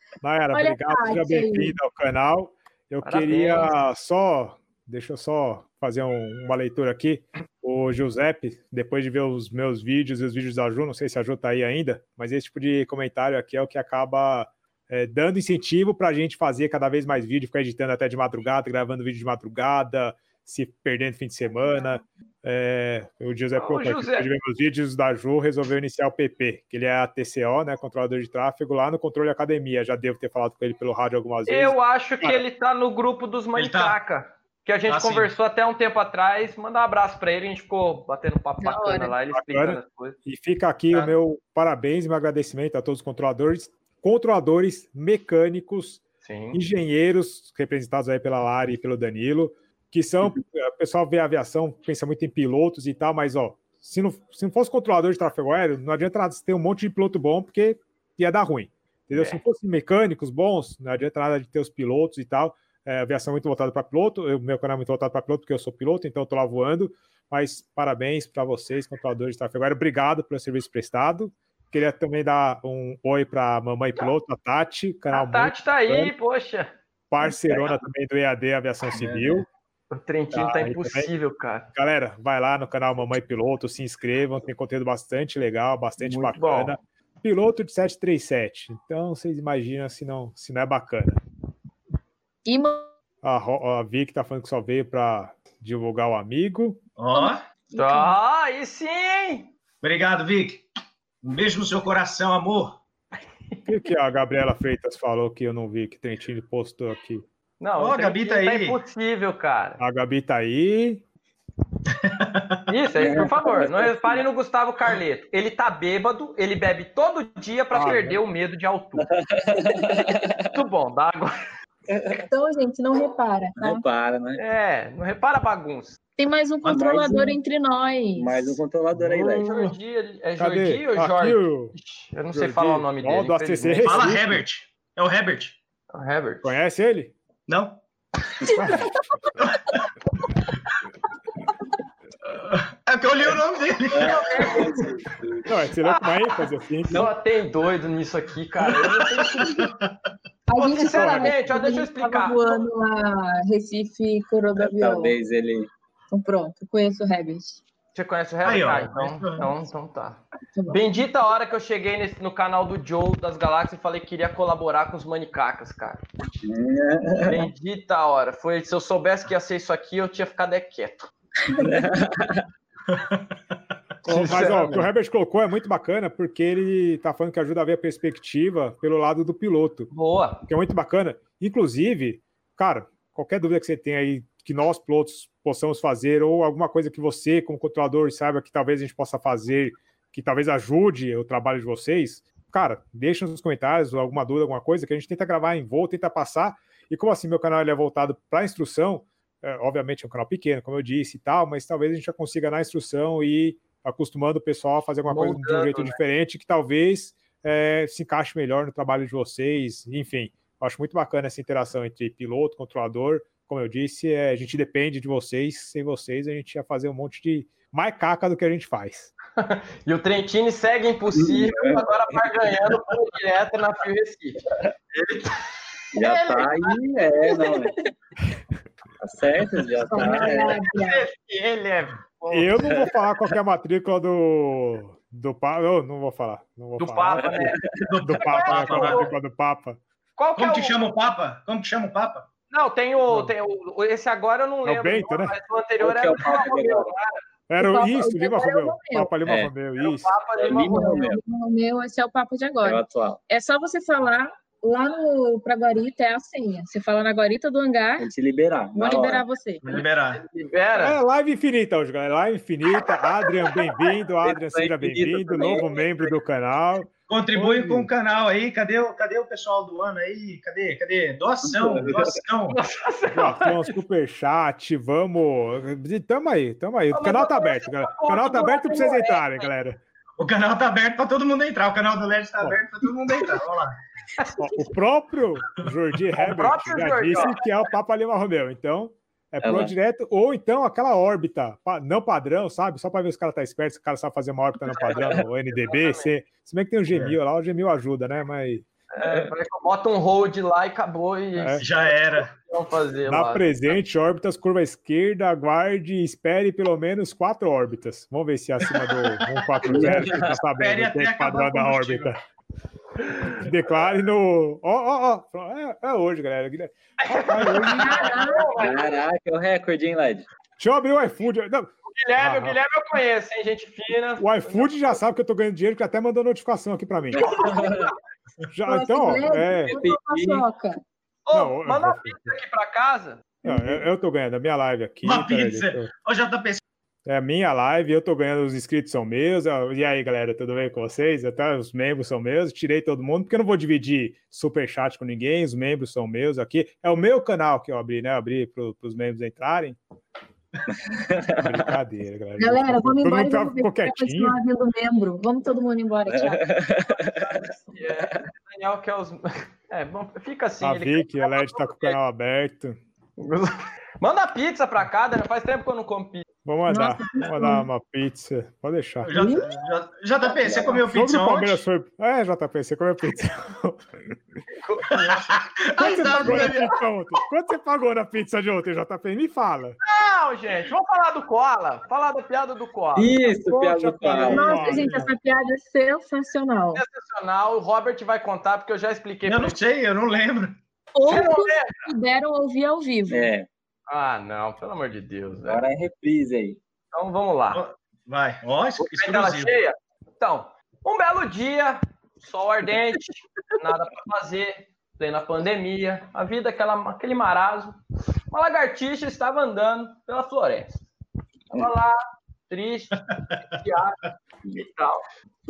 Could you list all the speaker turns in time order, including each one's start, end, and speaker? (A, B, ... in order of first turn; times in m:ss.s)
0:00.2-0:32.4 A
0:00.5-0:01.8 B
0:03.0-0:03.7 C
0:23.6-0:24.3 C
0:31.5-0:40.2 C
0:33.5-0:34.0 D
0:34.9-0:35.3 D
0:38.6-0:39.1 B
0:39.3-0:46.0 A
0:46.2-0:46.6 C
0:46.5-1:16.1 A
1:15.1-1:16.7 C
1:17.1-1:19.4 A
1:18.8-1:19.4 D
1:19.9-1:21.7 C
1:20.3-1:21.1 A
1:21.7-1:31.2 A
1:26.0-1:26.7 C
1:32.4-1:32.9 B
1:33.2-1:36.8 A
1:37.0-1:37.4 D
1:37.1-1:38.2 B
1:37.8-1:39.5 C
1:39.8-1:40.6 D
1:41.2-1:42.8 D
1:43.6-1:47.2 A
1:47.6-1:49.8 C
1:47.8-1:48.8 D
1:49.8-1:51.0 A
1:51.9-1:52.6 D
1:52.7-1:59.1 C
1:53.0-1:54.2 E
1:57.7-1:58.2 A
1:59.0-2:00.5 E
2:00.5-2:01.3 C
2:01.9-2:02.2 E
2:02.3-2:03.8 B
2:03.6-2:04.4 E
2:04.4-2:06.0 C
2:06.2-2:08.6 B
2:06.7-2:07.4 E
2:08.2-2:09.5 E
2:09.4-2:14.2 C
2:10.4-2:11.7 A
2:12.3-2:14.4 A
2:13.8-2:15.6 D
2:15.9-2:16.5 C
2:16.4-2:17.1 A
2:17.5-2:17.8 D
2:18.5-2:19.4 A
2:19.4-2:19.8 D
2:22.2-2:24.5 D
2:23.9-2:25.5 E
2:24.0-2:24.8 C
2:25.4-2:27.1 A
2:25.8-2:26.2 C
2:26.9-2:29.6 C
2:29.3-2:29.9 D
2:30.5-2:35.2 B
2:30.6-2:32.6 C
2:34.6-2:35.7 E
2:36.1-2:37.6 B
2:37.9-2:46.0 C
2:38.4-2:39.5 D
2:40.6-2:40.8 B
2:46.4-2:47.5 E
2:47.2-2:51.1 C
2:51.6-2:52.4 E
2:52.9-2:53.2 D
2:54.0-2:59.9 A
2:54.0-2:54.9 C
2:59.9-3:00.4 C
3:00.5-3:39.1 A
3:25.1-3:26.0 C
3:39.4-3:44.4 C
3:41.1-3:42.2 E
3:44.9-3:46.8 C
3:45.9-3:47.9 E
3:49.0-3:50.7 E
3:49.9-3:51.0 B
3:49.9-3:52.9 C
3:52.3-3:59.8 A
3:56.8-3:57.6 C
3:57.4-3:57.9 E
3:57.8-3:59.1 D
3:58.2-3:59.1 C
4:00.2-4:00.8 C
4:00.3-4:02.3 D
4:02.5-4:07.2 C
4:03.1-4:03.3 A
4:04.6-4:05.4 A
4:05.8-4:06.9 E
4:06.2-4:06.6 B
4:07.5-4:10.2 A
4:07.6-4:09.1 B
4:09.2-4:09.5 E
4:09.8-4:11.1 C
4:10.4-4:11.2 E
4:10.7-4:18.1 B
4:12.6-4:13.2 E
4:18.0-4:19.2 E
4:18.7-4:19.6 B
4:19.6-4:20.2 D
4:19.7-4:21.0 C
4:20.8-4:27.9 A
4:24.2-4:26.1 E
4:27.1-4:32.6 D
4:31.4-4:32.2 E
4:32.5-4:33.8 C
4:33.1-4:39.8 A
4:36.9-4:39.5 C
4:40.2-4:43.8 D
4:44.4-4:58.6 A
4:46.2-4:47.4 C
4:49.4-4:49.7 E
4:54.7-4:56.1 C
4:56.9-4:57.2 D
4:58.9-5:03.4 C
4:59.0-4:59.3 E
5:01.4-5:01.6 A
5:01.6-5:02.3 D
5:03.1-5:12.2 A
5:09.6-5:10.3 E
5:10.6-5:12.1 D
5:13.2-5:18.1 A
5:17.0-5:19.0 C
5:17.7-5:18.8 B
5:18.5-5:20.2 E
5:20.6-5:22.6 A
5:21.9-5:24.9 C
5:24.2-5:27.5 A
5:27.1-5:27.9 E
5:27.2-5:28.0 C
5:28.5-5:29.8 A
5:28.6-5:30.8 B
5:29.6-5:30.4 E
5:31.2-5:33.3 C
5:31.3-5:32.4 A
5:33.4-5:35.9 A
5:33.4-5:33.8 E
5:35.0-5:36.6 D
5:37.0-5:49.8 A
5:50.7-5:51.6 E
5:51.4-5:54.4 A
5:52.4-5:56.6 B
5:56.1-5:58.2 E
5:57.0-6:02.0 C
6:00.6-6:02.8 A
6:03.2-6:06.2 C
6:06.4-6:09.2 A
6:06.7-6:07.6 B
6:09.0-6:11.6 D
6:09.1-6:09.5 B
6:10.8-6:14.2 A
6:14.6-6:15.4 C
6:15.0-6:16.8 D
6:15.8-6:19.8 A
6:19.8-6:23.3 C
6:22.9-6:24.9 E
6:23.4-6:25.1 A
6:24.3-6:26.8 B
6:26.7-6:29.6 C
6:29.2-6:30.6 D
6:30.9-6:33.3 B
6:31.0-6:31.8 C
6:33.1-6:33.5 E
6:33.9-6:35.6 C
6:35.4-6:36.6 E
6:36.9-6:37.6 C
6:37.5-6:39.6 D
6:38.8-6:47.8 C
6:48.3-6:50.8 C
6:51.5-6:52.0 C
6:52.5-6:55.0 C
6:53.1-6:53.6 D